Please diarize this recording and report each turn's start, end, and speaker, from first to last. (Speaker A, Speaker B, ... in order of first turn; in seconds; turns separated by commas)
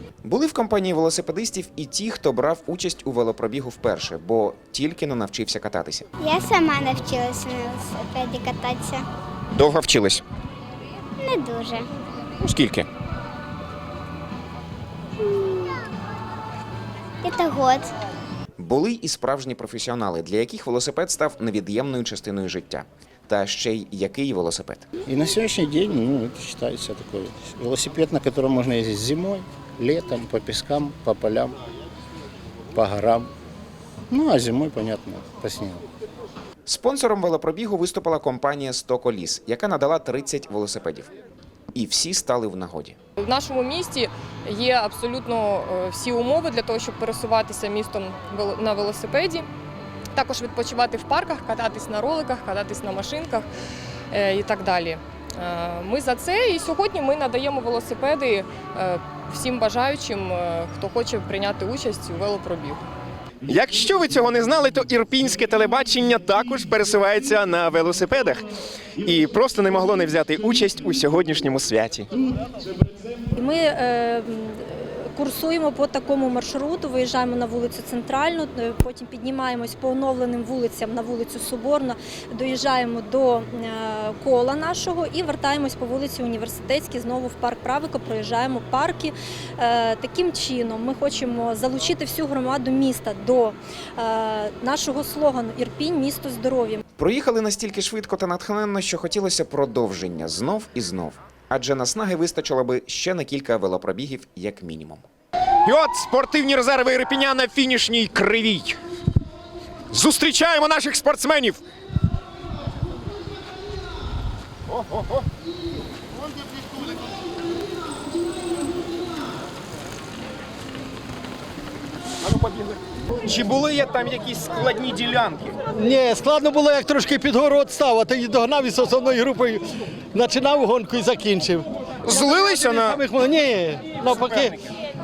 Speaker A: 0.2-6.0, Speaker B: 6.2-9.1, Speaker A: 9.6-10.2, Speaker B: 11.2-11.9, Speaker A: 12.4-12.8, Speaker B: 17.2-17.9, Speaker A: 18.6-24.9, Speaker C: 25.1-31.6, Speaker C: 32.7-33.3, Speaker C: 34.1-35.8, Speaker A: 36.6-41.1, Speaker A: 41.7-43.0, Speaker D: 43.2-49.5, Speaker D: 50.1-53.5, Speaker D: 54.1-62.8, Speaker E: 63.5-68.5, Speaker E: 69.0-72.1, Speaker F: 73.3-96.8, Speaker A: 97.0-105.0, Speaker E: 105.7-108.8, Speaker E: 109.9-111.6, Speaker E: 114.7-115.1, Speaker E: 122.2-125.5, Speaker G: 125.8-134.6, Speaker E: 132.6-133.0